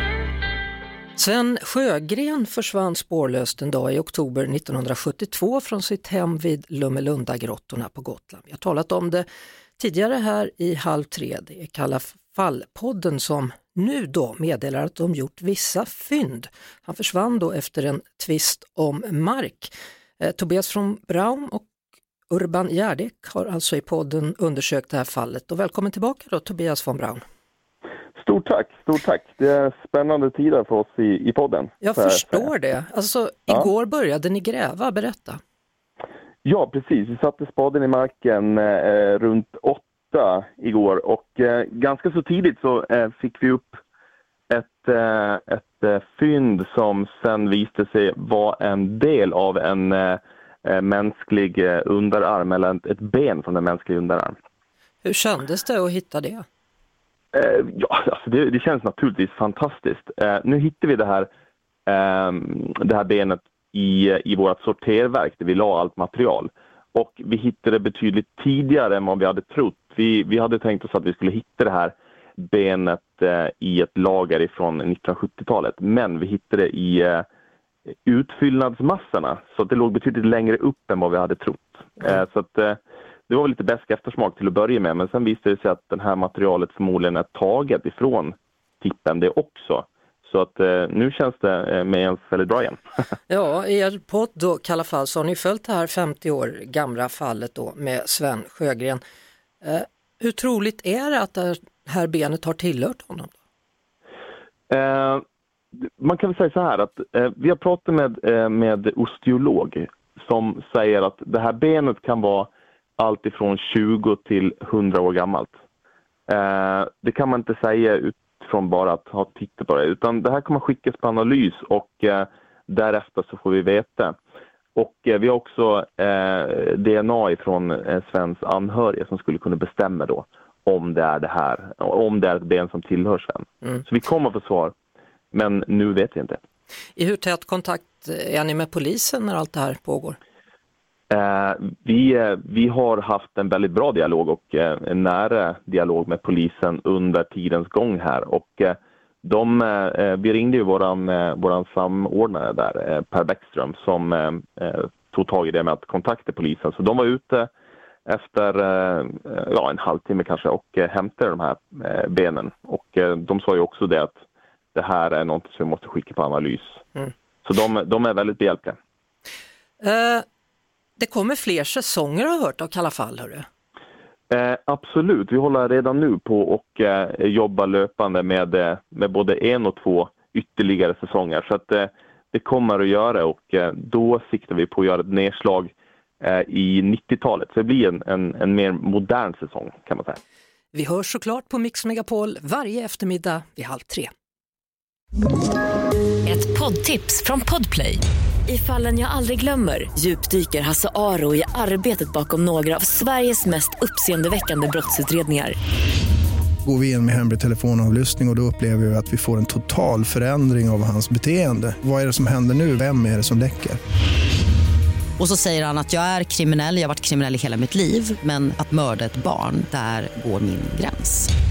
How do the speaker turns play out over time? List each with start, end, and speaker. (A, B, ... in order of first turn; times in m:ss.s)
0:01.2-0:09.2 A
0:09.8-0:21.7 A
0:22.3-0:27.2 A
0:28.2-0:32.4 B
0:31.8-0:35.4 A
0:36.4-0:43.8 B
0:44.5-0:54.4 B
0:55.0-0:56.4 A
0:57.3-1:01.3 B
1:01.9-1:17.2 B
1:18.0-1:22.8 B
1:23.3-1:32.8 B
1:33.3-1:39.0 A
1:39.6-1:43.3 A
1:44.7-1:45.2 B
1:46.0-1:55.5 B
1:56.3-2:04.1 B
2:04.7-2:14.7 B
2:15.3-2:16.4 B
2:17.0-2:20.2 A
2:21.1-2:37.5 B
2:38.1-2:44.2 B
2:44.7-2:46.8 B
2:47.4-2:48.8 B
2:49.8-2:50.2 A
2:51.0-2:53.4 A
2:54.3-3:10.2 B
3:10.7-3:14.1 A
3:16.2-3:25.6 C
3:26.6-3:33.8 D
3:35.2-3:41.3 E